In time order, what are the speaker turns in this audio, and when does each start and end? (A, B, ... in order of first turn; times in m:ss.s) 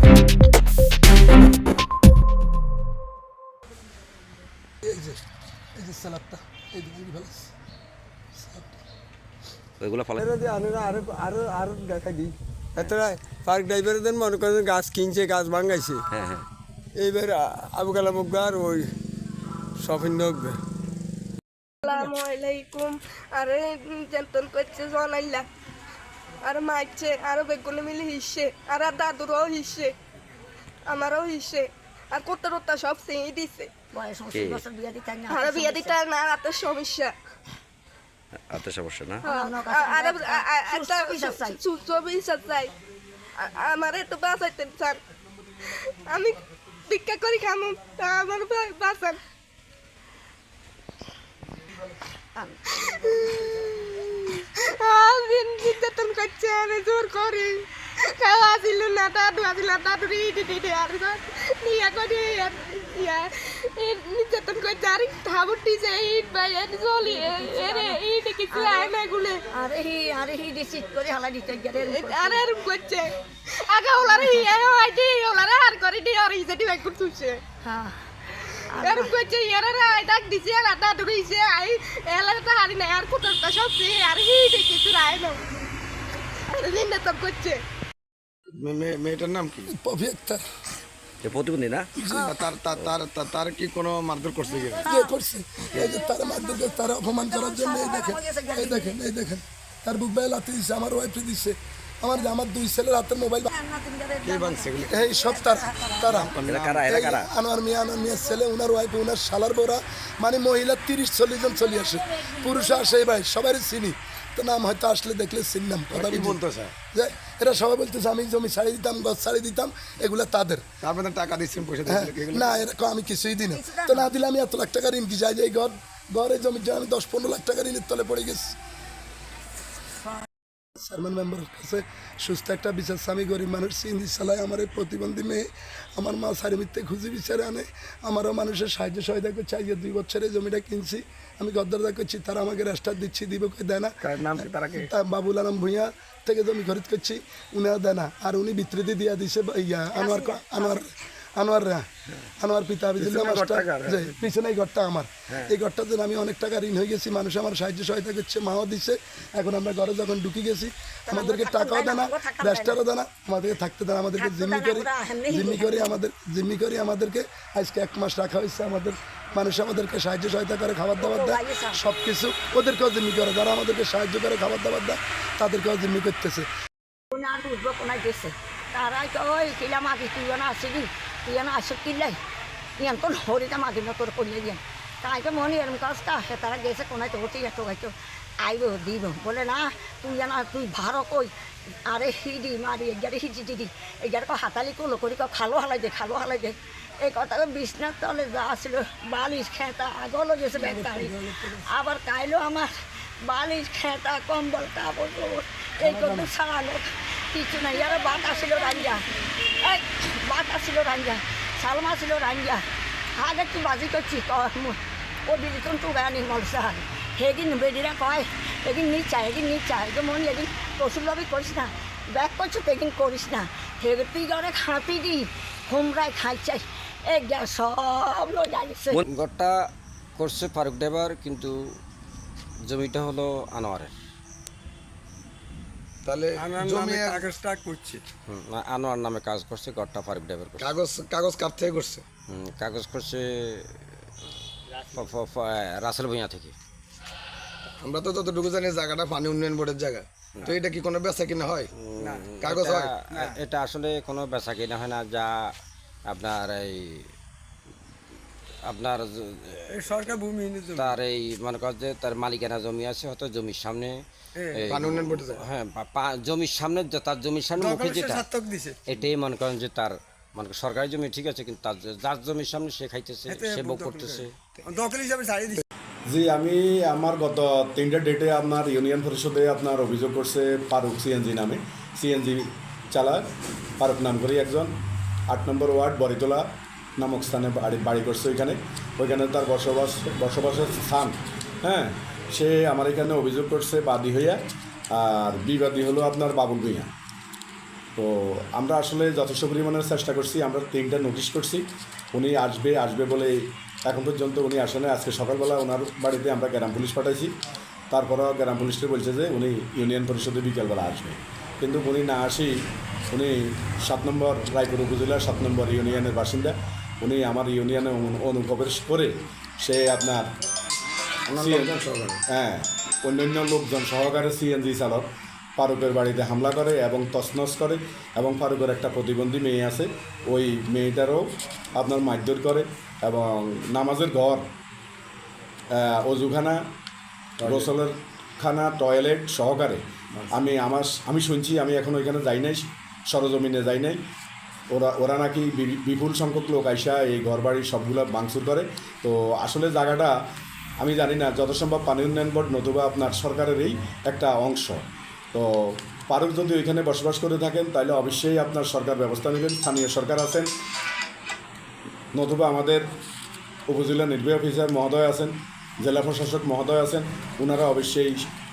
0:04.8-0:05.2 A
0:05.8-0:07.5 A
0:08.4-0:08.8 A
0:09.8-0:10.2 B
0:10.2-0:16.0 C
0:16.1-0:16.5 B
0:17.0-0:18.9 C
0:19.8-0:20.6 C
0:21.8-0:25.5 D
0:21.9-0:22.1 C
0:26.4-0:29.9 D
0:30.9-0:33.7 D
0:33.9-0:36.0 E
0:34.3-0:34.6 B
0:35.3-0:37.1 D
0:38.5-0:39.2 B
0:39.2-0:42.7 D
0:39.3-0:41.6 E
0:43.4-0:45.0 D
0:45.7-0:49.2 D
0:52.4-0:52.6 E
0:52.9-1:09.4 D
1:07.0-1:08.9 E
1:09.5-1:12.4 E
1:11.8-1:17.4 D
1:14.1-1:14.5 E
1:17.6-1:18.0 E
1:18.7-1:19.1 E
1:18.8-1:25.4 D
1:26.5-1:27.6 D
1:28.6-1:29.7 F
1:29.7-1:30.4 A
1:31.2-1:31.9 B
1:32.0-1:32.3 A
1:32.1-1:32.4 E
1:32.1-1:34.9 F
1:34.8-1:35.2 E
1:34.9-1:43.5 A
1:35.7-1:36.0 F
1:35.9-1:39.0 E
1:43.5-1:46.1 E
1:44.2-1:45.2 F
1:44.8-2:00.6 A
1:46.1-1:47.1 F
1:46.4-1:47.3 B
1:51.7-1:53.0 E
1:55.9-1:56.7 F
2:00.8-2:02.6 F
2:01.9-2:08.6 A
2:03.5-2:04.1 E
2:10.8-2:31.9 A
2:24.0-2:24.9 F
2:30.0-2:30.8 E
2:32.4-2:56.5 A
2:33.0-2:34.2 F
2:41.1-2:42.8 E
2:44.2-2:45.9 E
2:51.0-2:51.8 E
2:57.1-3:02.2 E
3:02.8-3:11.3 E
3:11.9-3:21.2 E
3:20.5-3:21.7 A
3:21.7-3:22.7 E
3:23.2-3:32.6 E
3:25.8-3:26.3 A
3:33.2-3:49.0 E
3:49.1-3:49.5 G
3:50.2-3:51.5 G
3:52.7-3:53.9 G
3:56.0-3:57.4 F
3:56.4-3:58.0 C
3:58.3-4:00.8 G
4:00.6-4:02.0 F
4:02.3-4:03.6 G
4:04.9-4:06.5 G
4:07.8-4:11.7 F
4:11.9-4:15.5 G
4:12.0-4:12.3 C
4:12.4-4:12.9 F
4:13.1-4:13.4 C
4:16.1-4:17.0 G
4:18.7-4:20.2 G
4:19.7-4:21.0 C
4:20.7-4:24.0 G
4:24.4-4:24.6 C
4:24.6-4:28.3 G
4:24.7-4:25.4 F
4:27.6-4:28.8 C
4:28.9-4:34.3 G
4:33.3-4:35.6 C
4:36.1-4:43.2 H
4:43.8-4:44.7 H
4:45.3-4:46.4 H
4:47.0-4:54.4 H
4:54.9-4:56.9 H
4:58.0-5:07.3 H
5:07.9-5:12.6 H
5:13.1-5:20.3 H
5:21.3-5:22.2 F
5:21.4-5:21.8 H
5:22.3-5:25.0 H
5:25.6-5:31.2 H
5:31.8-5:34.5 H
5:35.7-5:36.6 H
5:37.4-5:37.7 F
5:37.4-5:39.8 H
5:40.3-5:44.0 H
5:44.7-5:50.1 H
5:50.8-5:54.8 H
5:55.3-6:00.5 H
6:02.1-6:02.9 H
6:03.7-6:08.2 H